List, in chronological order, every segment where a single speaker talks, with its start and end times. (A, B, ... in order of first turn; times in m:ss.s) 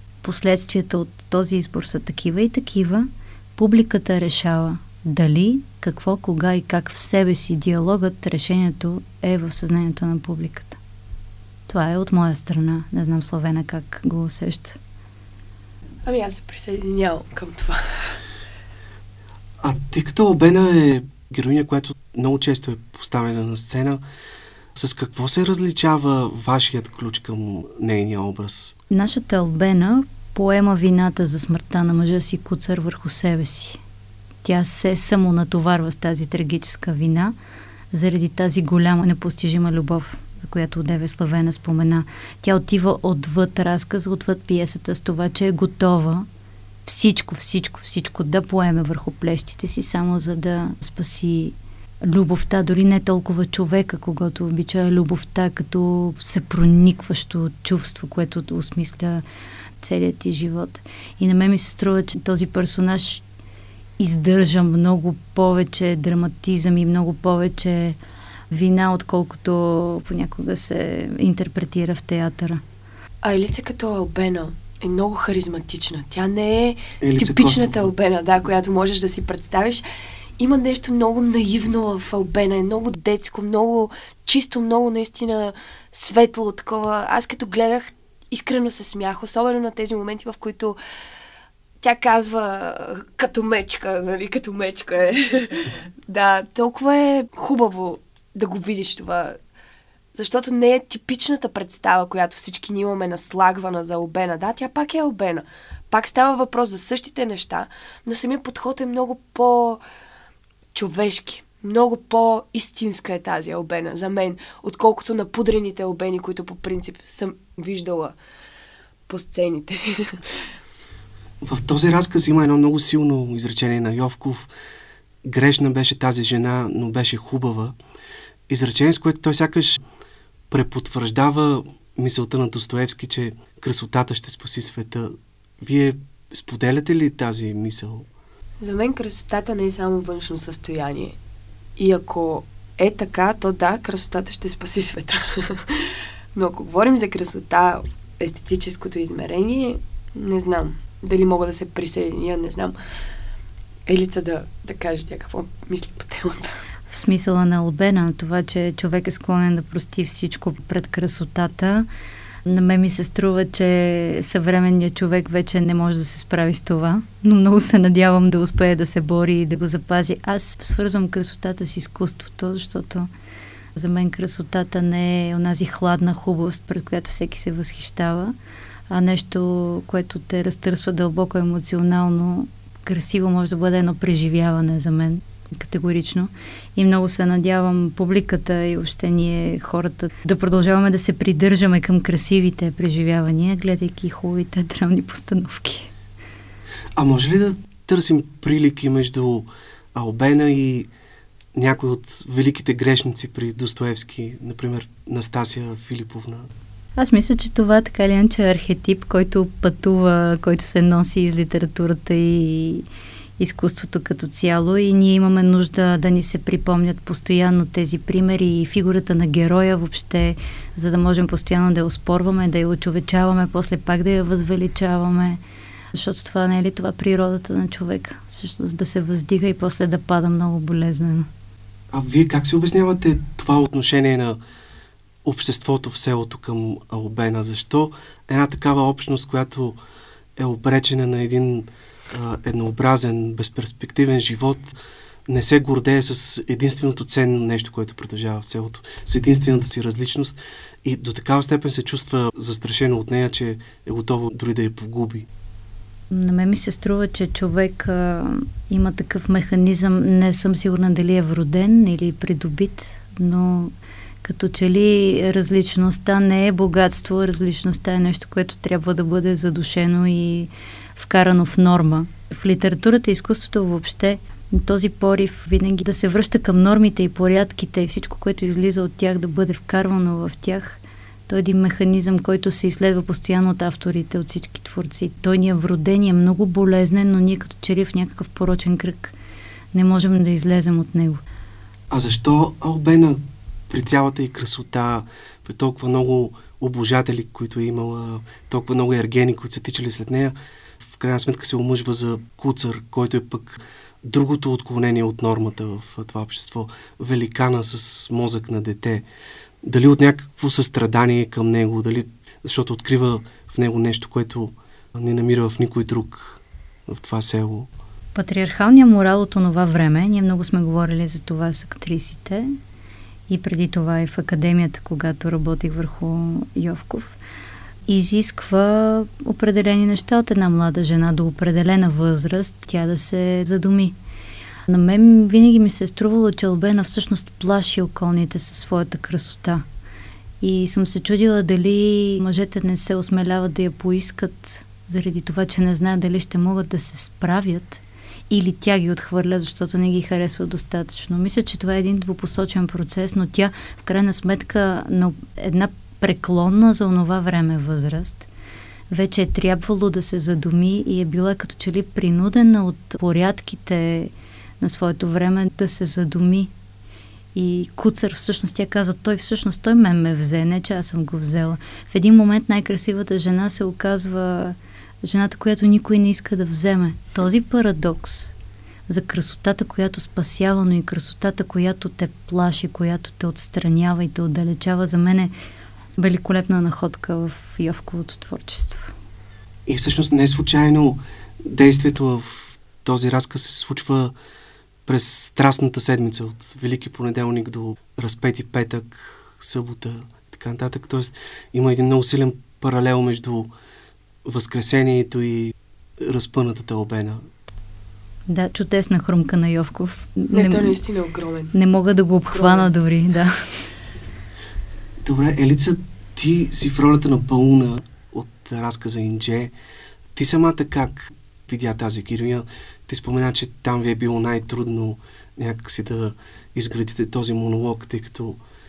0:00.2-0:10.8 A
0:11.7-0:14.8 A
0:16.0-0:18.2 B
0:19.6-0:24.0 C
0:24.8-0:28.8 C
0:28.9-0:33.8 A
0:34.4-0:37.3 A
0:37.9-0:46.3 A
0:46.9-0:59.2 A
0:59.8-1:03.2 A
1:04.0-1:08.0 A
1:08.5-1:12.6 A
1:13.2-1:19.8 B
1:17.0-1:17.9 C
1:20.4-1:30.8 B
1:31.8-1:39.4 B
1:40.1-1:49.8 B
1:50.7-1:58.2 B
1:59.1-2:00.4 B
2:01.4-2:04.5 C
2:05.2-2:07.8 C
2:08.5-2:09.8 C
2:10.5-2:18.1 C
2:18.6-2:21.2 B
2:21.8-2:32.8 B
2:33.9-2:36.5 B
2:36.9-2:41.9 A
2:42.4-2:53.1 A
2:53.8-2:58.3 A
2:58.9-3:15.9 A
3:17.0-3:20.9 C
3:21.6-3:26.5 C
3:27.0-3:32.9 A
3:33.4-3:45.4 A
3:45.9-3:51.3 A
3:51.9-3:54.4 C
3:55.2-3:59.8 C
4:00.4-4:15.3 C
4:16.1-4:23.7 A
4:24.2-4:49.1 A
4:49.7-4:51.2 A
4:51.9-5:09.1 C
5:09.6-5:17.7 C
5:18.2-5:22.5 A
5:23.3-5:27.2 A
5:27.9-5:34.0 A
5:34.7-5:39.6 A
5:40.4-5:58.3 A
5:58.9-6:06.5 A
6:07.4-6:18.3 A
6:18.9-6:25.3 A
6:26.0-6:28.9 A
6:29.7-6:34.1 C
6:34.9-6:43.5 C
6:44.2-6:47.2 C
6:48.3-6:50.8 A
6:50.3-6:51.5 B
6:51.5-6:53.7 A
6:52.3-6:52.7 B
6:55.0-6:59.5 C
7:00.2-7:08.4 C